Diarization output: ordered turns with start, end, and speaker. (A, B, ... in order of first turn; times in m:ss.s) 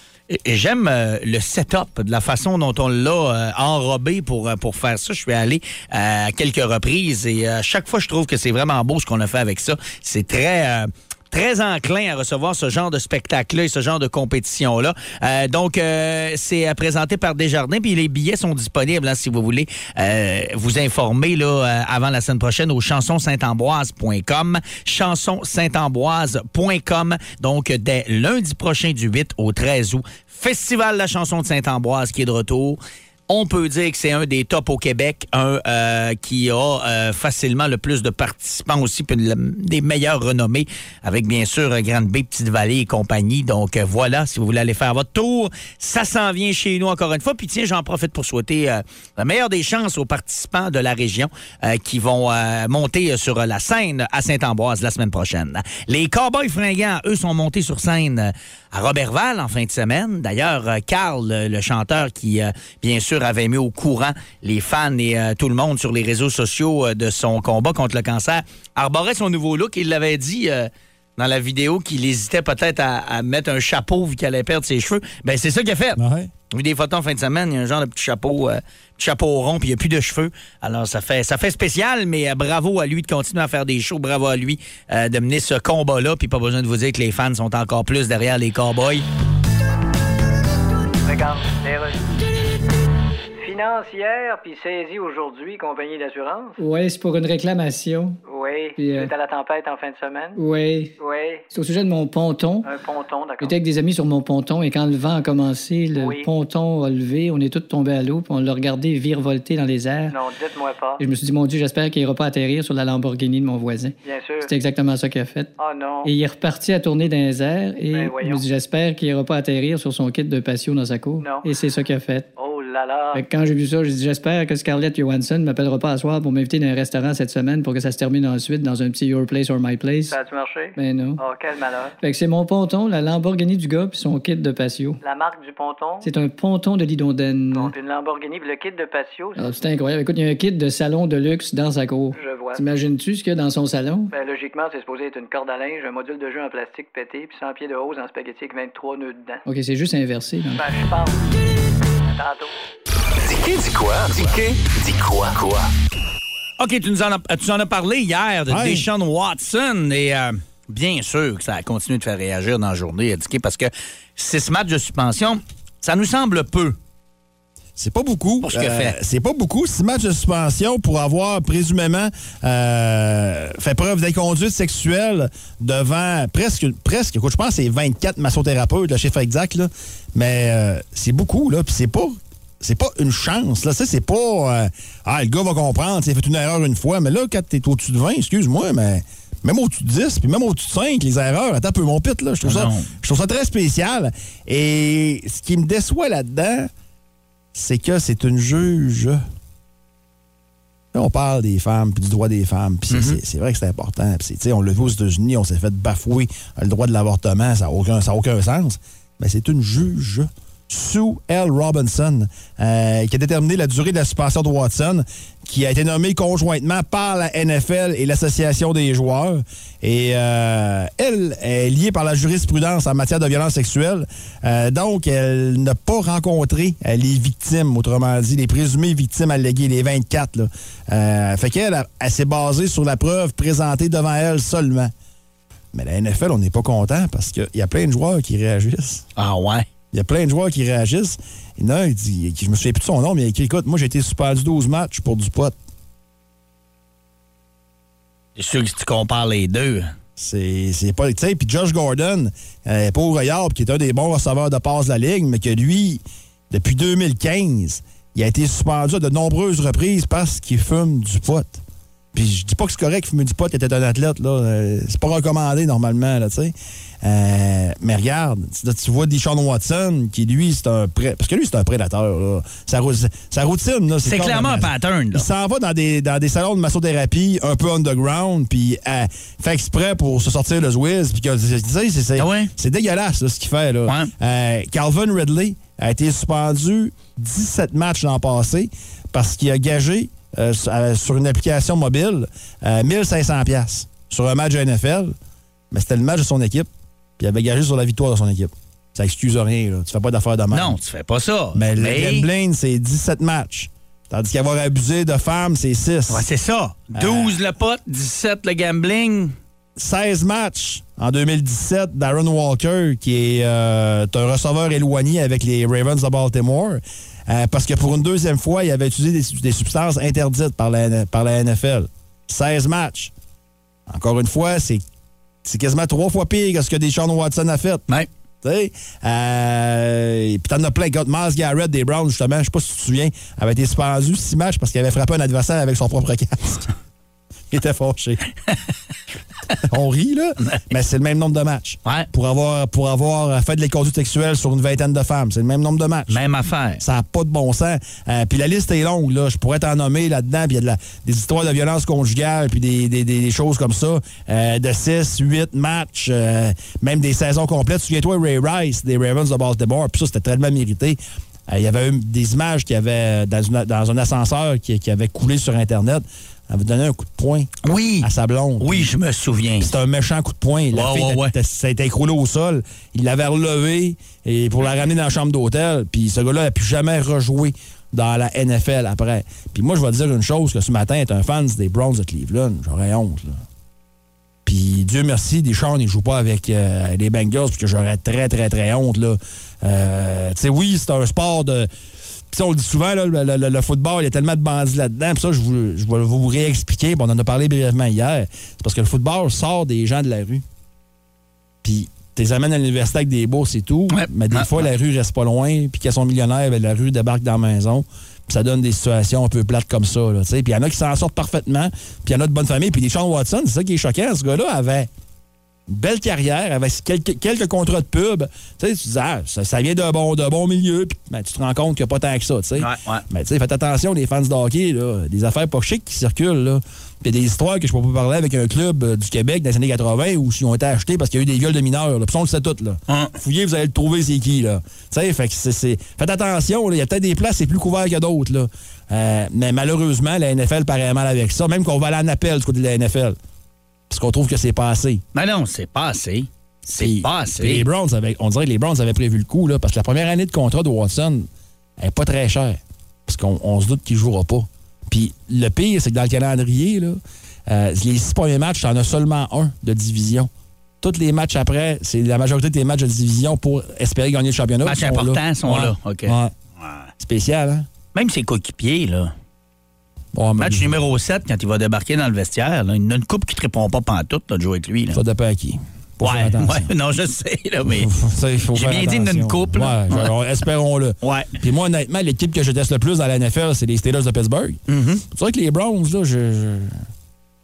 0:00.3-1:16.0 A
1:16.0-1:16.3 B
1:16.5-1:29.1 A
1:31.0-1:32.0 C
1:33.4-1:36.6 C
1:36.6-1:38.2 D
1:38.3-1:40.4 C
1:38.8-1:39.1 D
1:40.4-1:41.0 D
1:41.0-1:41.4 C
1:41.5-1:42.7 D
1:42.6-1:43.5 C
1:43.4-1:50.2 D
1:46.0-1:46.3 C
1:50.1-1:51.0 C
1:51.0-1:55.5 D
1:54.0-1:54.5 C
1:55.6-1:56.1 C
1:56.0-2:02.3 D
1:57.9-1:58.4 C
2:01.2-2:01.5 C
2:02.4-2:03.2 C
2:03.1-2:10.2 D
2:10.1-2:12.0 C
2:10.8-2:11.2 D
2:12.0-2:15.0 D
2:15.0-2:16.1 C
2:16.0-2:17.7 D
2:17.5-2:19.4 C
2:19.4-2:24.1 D
2:22.2-2:22.6 C
2:24.1-2:29.4 C
2:29.4-2:30.6 D
2:30.6-2:31.4 C
2:32.0-2:32.5 C
2:33.2-2:35.7 E
2:36.6-2:46.8 A
2:38.5-2:38.9 B
2:47.8-3:16.7 B
2:48.4-2:49.0 A
3:12.4-3:12.9 A
3:17.5-3:19.2 B
3:20.9-3:54.9 B
3:22.9-3:23.2 A
3:55.7-3:59.0 B
3:59.2-3:59.7 A
3:59.9-4:05.6 B
4:08.4-4:09.9 A
4:10.2-4:21.6 B
4:22.1-4:55.1 B
4:34.0-4:35.3 A
4:42.2-4:42.5 A
4:55.7-5:00.8 B
5:00.5-5:02.3 A
5:01.5-5:06.2 B
5:06.1-5:09.4 A
5:06.9-5:07.4 B
5:09.8-5:23.1 B
5:23.9-5:24.8 B
5:25.4-5:27.8 B
5:28.4-5:36.7 B
5:37.5-5:38.2 B
5:39.7-5:46.2 B
5:46.1-5:46.8 A
5:46.8-6:07.5 B
6:07.6-6:08.1 A
6:08.0-6:08.9 B
6:08.6-6:09.7 A
6:09.6-6:23.4 B
6:10.7-6:11.3 A
6:24.5-6:31.7 B
6:32.3-6:40.4 B
6:41.6-6:54.9 B
6:43.9-6:44.6 A
6:55.7-7:23.2 B
7:02.6-7:03.0 A
7:12.9-7:13.1 A
7:23.9-7:25.0 B
7:25.1-7:27.6 A
7:26.7-7:31.3 B
7:31.8-7:40.3 B
7:40.8-7:46.3 B
7:44.6-7:46.8 A
7:47.0-7:47.7 B
7:47.9-7:49.1 A
7:50.1-7:50.8 B
7:50.4-7:55.0 A
7:54.9-7:56.7 B
7:56.0-7:57.9 A
7:57.7-8:06.8 B
7:58.5-8:00.1 A
8:01.0-8:01.3 A
8:04.7-8:05.0 A